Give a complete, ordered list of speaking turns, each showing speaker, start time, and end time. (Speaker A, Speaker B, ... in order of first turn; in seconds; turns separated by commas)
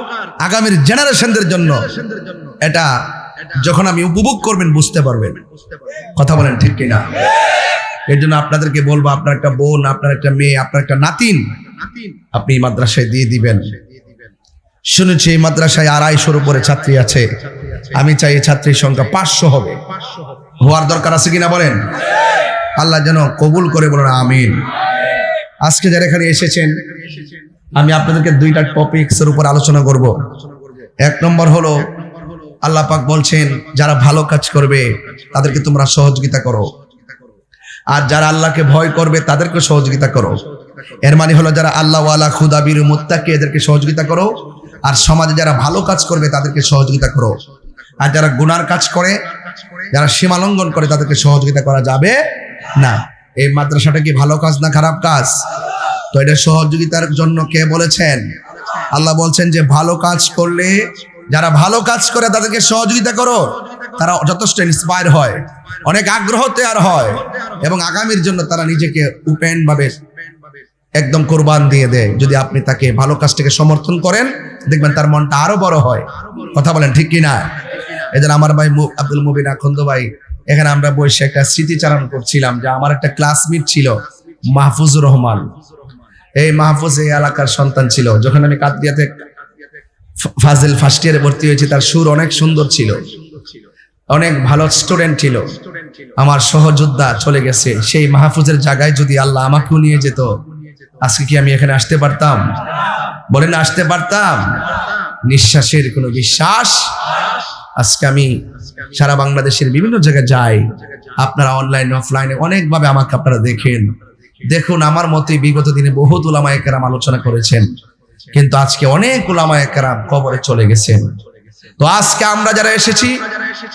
Speaker A: 0.4-1.9, Speaker A: 2.6-5.4, Speaker A: 6.1-7.1, Speaker A: 8.1-11.5, Speaker A: 12.3-13.8, Speaker A: 14.9-17.4, Speaker A: 17.9-19.8, Speaker A: 20.6-21.9, Speaker A: 22.8-24.6, Speaker A: 25.6-26.9, Speaker A: 27.7-30.2, Speaker A: 31.0-31.9, Speaker A: 32.6-36.7, Speaker A: 37.9-40.4, Speaker A: 41.0-47.4, Speaker A: 48.0-49.2, Speaker A: 49.9-52.2, Speaker A: 52.8-55.4, Speaker A: 56.1-58.3, Speaker A: 58.9-70.0, Speaker A: 71.0-85.5, Speaker A: 86.4-89.1, Speaker A: 90.2-93.1, Speaker A: 94.1-95.6, Speaker A: 96.2-100.4, Speaker A: 101.0-102.5, Speaker A: 103.3-104.7, Speaker A: 105.2-107.0, Speaker A: 107.7-113.9, Speaker A: 114.4-117.7, Speaker A: 118.3-121.2, Speaker A: 121.8-123.2